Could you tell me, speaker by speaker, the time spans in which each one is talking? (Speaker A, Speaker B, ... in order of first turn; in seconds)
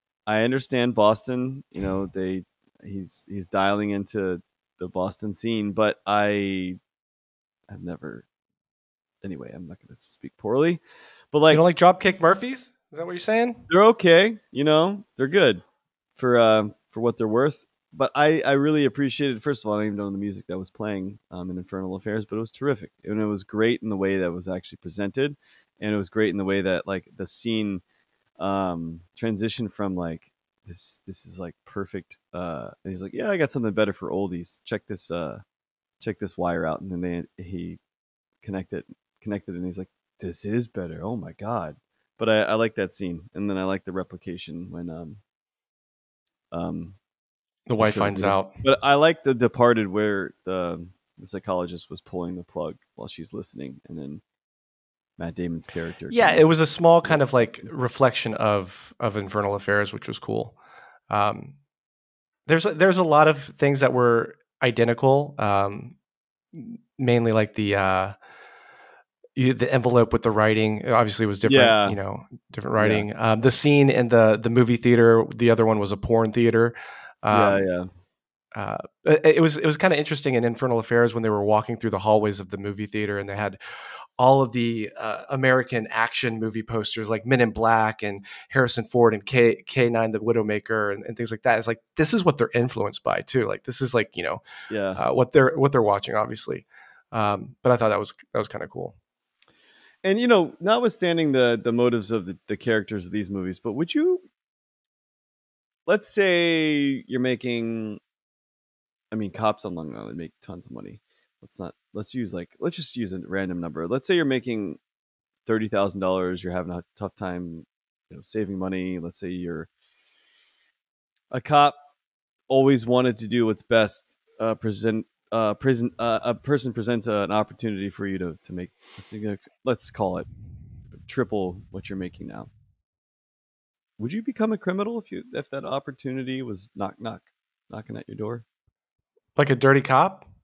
Speaker A: 0.3-6.8, 7.7-8.2, 9.2-10.8, 11.3-11.6, 13.7-15.6, 16.2-27.8, 28.4-35.4, 36.0-37.8, 38.4-45.2, 46.5-47.0, 47.8-54.2, 55.2-57.7, 71.5-72.0, 72.8-73.0, 77.3-77.9, 94.7-95.0, 100.0-104.2, 105.8-108.0, 109.1-114.8, 115.5-119.7, 121.3-121.8, 122.5-130.3, 130.9-132.5, 134.0-138.4
Speaker B: 11.5-13.6, 47.7-48.5, 56.1-60.5, 61.1-61.5, 62.5-66.0, 66.5-68.1, 69.3-77.6, 78.5-83.6, 84.2-94.4, 95.0-98.9, 139.3-140.2